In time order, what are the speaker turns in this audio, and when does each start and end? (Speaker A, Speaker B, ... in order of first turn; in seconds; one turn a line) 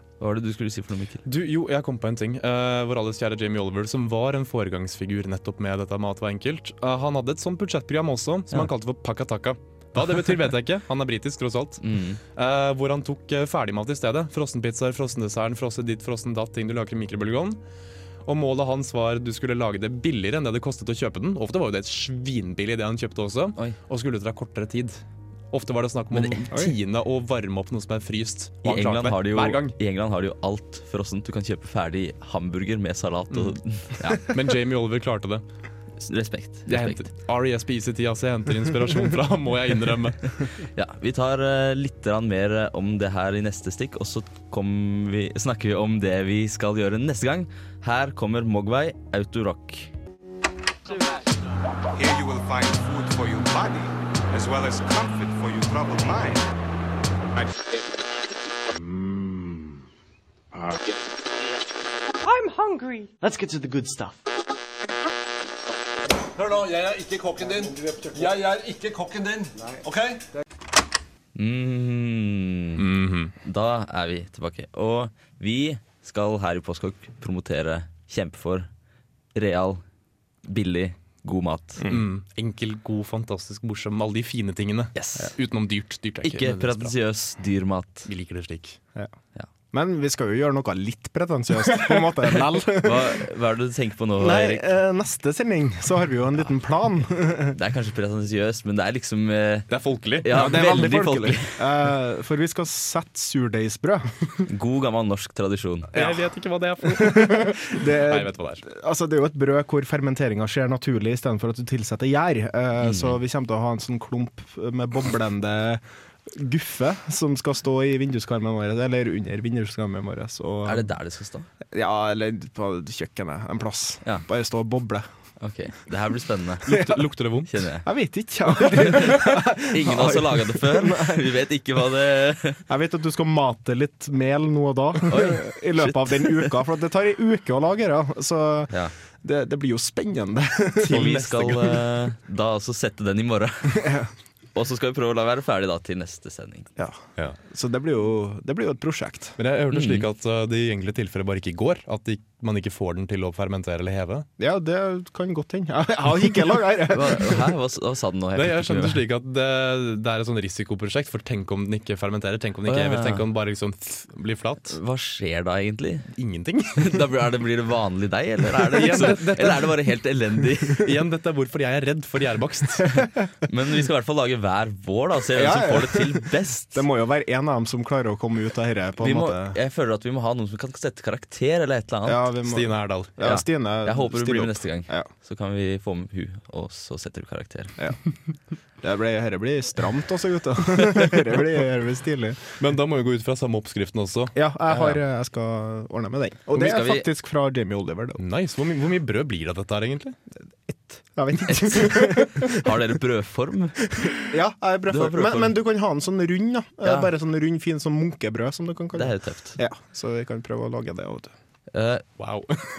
Speaker A: 0.2-1.2
Speaker B: 1.2-11.8
Speaker A: 11.8-12.2
Speaker B: 12.3-17.6
Speaker B: 18.2-25.0
Speaker B: 25.5-29.8
Speaker A: 26.1-26.4
Speaker A: 28.6-34.2
Speaker B: 33.3-33.6
Speaker B: 34.2-35.4
Speaker A: 36.0-37.0
Speaker B: 36.7-40.3
Speaker A: 40.7-49.9
Speaker C: 51.9-56.4
Speaker C: 57.3-58.1
Speaker D: 58.7-59.8
Speaker D: 60.5-60.9
Speaker C: 60.7-61.1
Speaker D: 62.2-64.2
Speaker E: 66.3-70.2
Speaker A: 71.3-72.9
Speaker B: 72.8-73.3
Speaker A: 73.4-78.7
Speaker A: 79.3-79.8
Speaker A: 80.4-81.8
Speaker F: 81.8-82.0
Speaker B: 81.9-86.9
Speaker A: 85.0-85.3
Speaker A: 86.2-88.1
Speaker B: 88.0-88.8
Speaker F: 89.7-93.2
Speaker A: 92.8-94.6
Speaker F: 94.2-97.6
Speaker A: 97.5-99.7
Speaker B: 99.7-100.5
Speaker A: 100.2-101.6
Speaker F: 100.3-104.1
Speaker A: 104.5-105.9
Speaker B: 105.9-108.6
Speaker F: 105.9-106.2
Speaker F: 106.8-120.9
Speaker A: 112.8-113.2
Speaker A: 120.6-121.5
Speaker F: 121.7-125.1
Speaker A: 125.4-126.8
Speaker B: 126.7-127.5
Speaker F: 126.7-127.0
Speaker A: 127.5-127.8
Speaker F: 127.8-131.3
Speaker A: 128.6-132.6
Speaker F: 132.7-141.8
Speaker A: 135.0-136.5
Speaker B: 140.8-141.7
Speaker A: 140.9-143.9
Speaker F: 143.7-144.1
Speaker A: 144.5-146.7
Speaker F: 146.8-149.4
Speaker B: 149.4-154.3
Speaker A: 149.7-150.0
Speaker F: 154.4-157.4
Speaker A: 156.9-159.0
Speaker B: 158.3-164.8
Speaker A: 162.7-163.2
Speaker A: 164.7-166.1
Speaker B: 166.2-167.0
Speaker A: 166.8-170.8
Speaker B: 168.7-169.8
Speaker B: 170.8-172.9
Speaker A: 173.4-176.8
Speaker F: 175.3-179.6
Speaker A: 179.0-182.3
Speaker F: 182.0-185.1
Speaker B: 182.5-183.1
Speaker A: 183.2-187.7
Speaker F: 188.8-192.4
Speaker B: 192.6-194.3
Speaker F: 194.3-198.2
Speaker A: 194.7-195.0
Speaker A: 196.5-197.1
Speaker B: 198.2-200.2
Speaker F: 200.7-202.7
Speaker A: 201.5-203.8
Speaker F: 204.0-211.3
Speaker A: 204.9-205.5
Speaker A: 206.8-207.1
Speaker A: 208.9-209.6
Speaker A: 211.7-212.1
Speaker B: 212.2-212.6